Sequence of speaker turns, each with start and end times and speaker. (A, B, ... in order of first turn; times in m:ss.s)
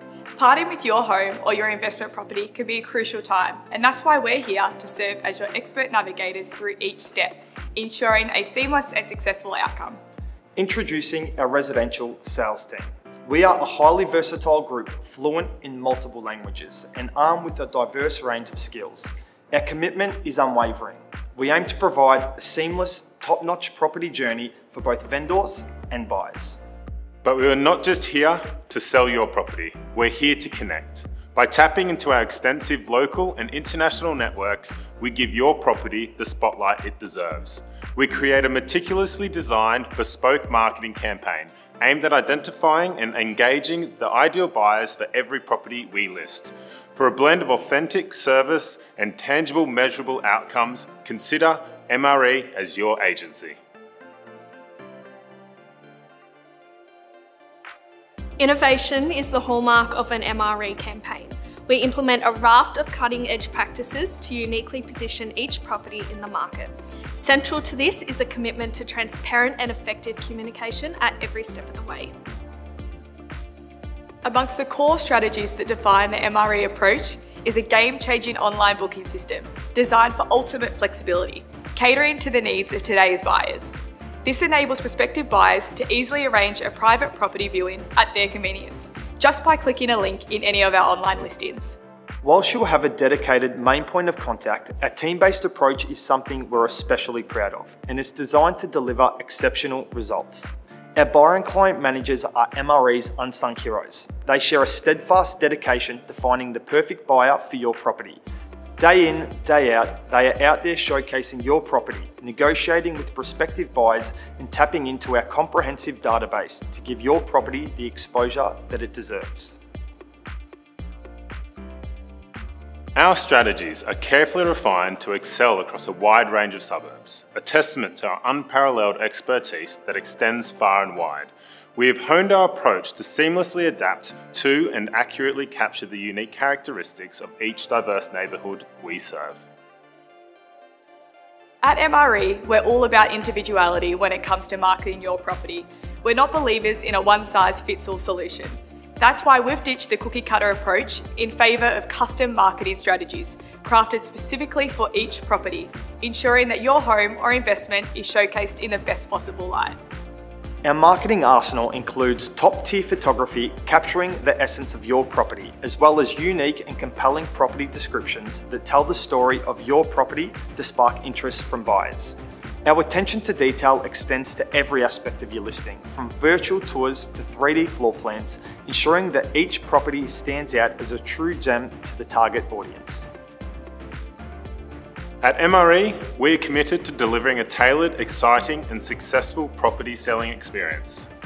0:00.4-0:10.0 A
0:10.6-0:26.6 B
0:27.2-0:53.6 C
0:58.4-1:12.1 D
1:14.2-1:31.8 A
1:32.2-1:48.2 B
1:48.8-1:59.6 B
2:02.9-2:19.4 C
2:21.6-2:39.8 A
2:40.6-3:03.1 B
3:05.2-3:11.1 C